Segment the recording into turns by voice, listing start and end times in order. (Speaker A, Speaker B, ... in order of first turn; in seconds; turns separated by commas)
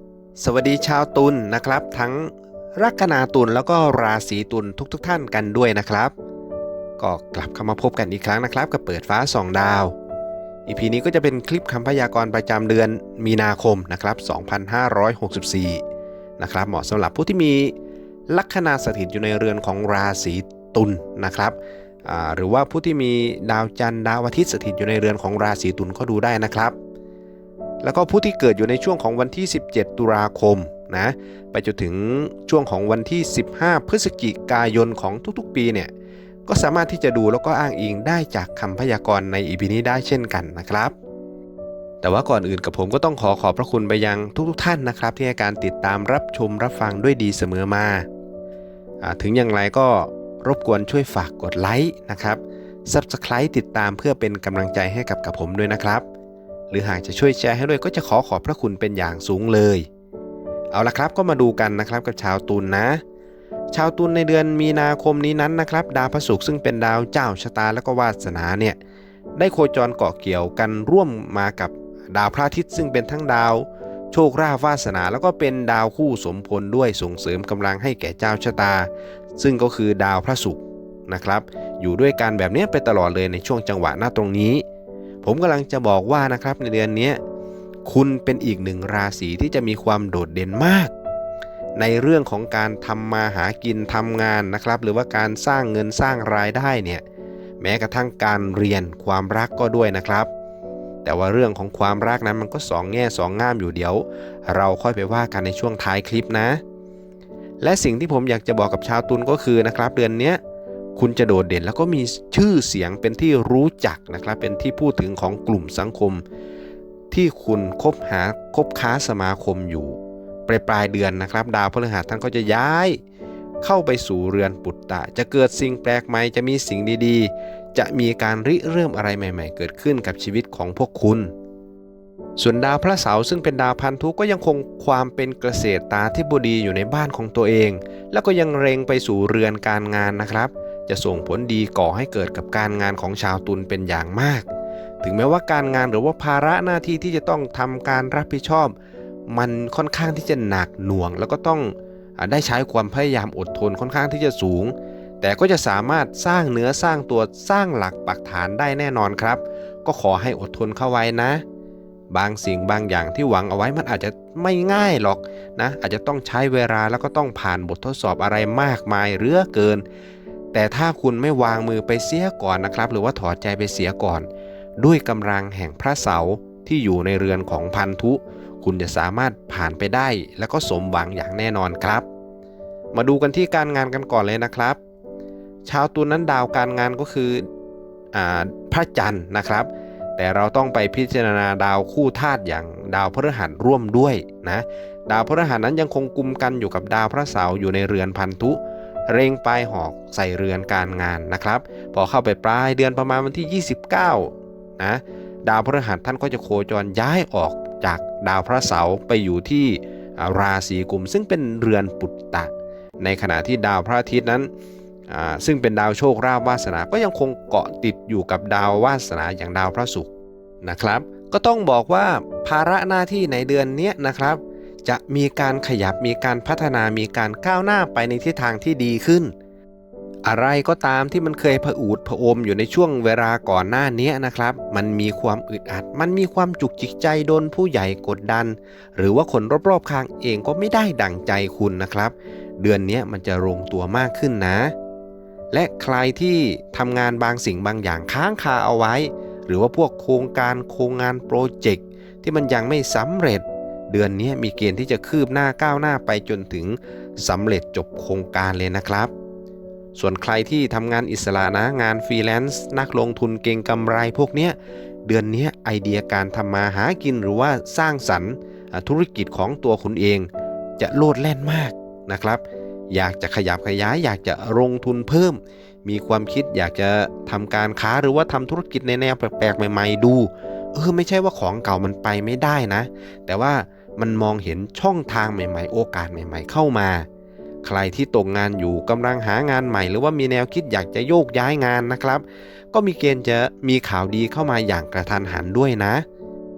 Speaker A: 0.3-6.1, Speaker A: 7.0-9.9, Speaker A: 10.7-15.8, Speaker A: 16.4-17.7, Speaker A: 18.3-26.7, Speaker A: 27.8-35.9, Speaker A: 36.5-40.9, Speaker A: 42.0-48.0, Speaker A: 49.0-56.0, Speaker A: 56.7-59.9, Speaker A: 60.7-63.0, Speaker A: 63.7-68.8, Speaker A: 69.3-84.6, Speaker A: 85.2-87.2, Speaker A: 87.8-90.9, Speaker A: 91.8-97.0, Speaker A: 97.6-100.3, Speaker A: 101.0-106.6, Speaker A: 107.6-110.4, Speaker A: 111.0-116.2, Speaker A: 117.1-123.0, Speaker A: 123.6-131.3, Speaker A: 132.4-144.4, Speaker A: 145.0-148.7, Speaker A: 149.3-161.4, Speaker A: 162.1-169.8, Speaker A: 170.5-174.3, Speaker A: 174.8-182.0, Speaker A: 182.9-184.8, Speaker A: 185.6-187.5, Speaker A: 188.1-214.5, Speaker A: 215.1-229.3, Speaker A: 230.2-244.7, Speaker A: 245.5-259.1, Speaker A: 259.9-270.3, Speaker A: 270.8-287.1, Speaker A: 287.6-296.0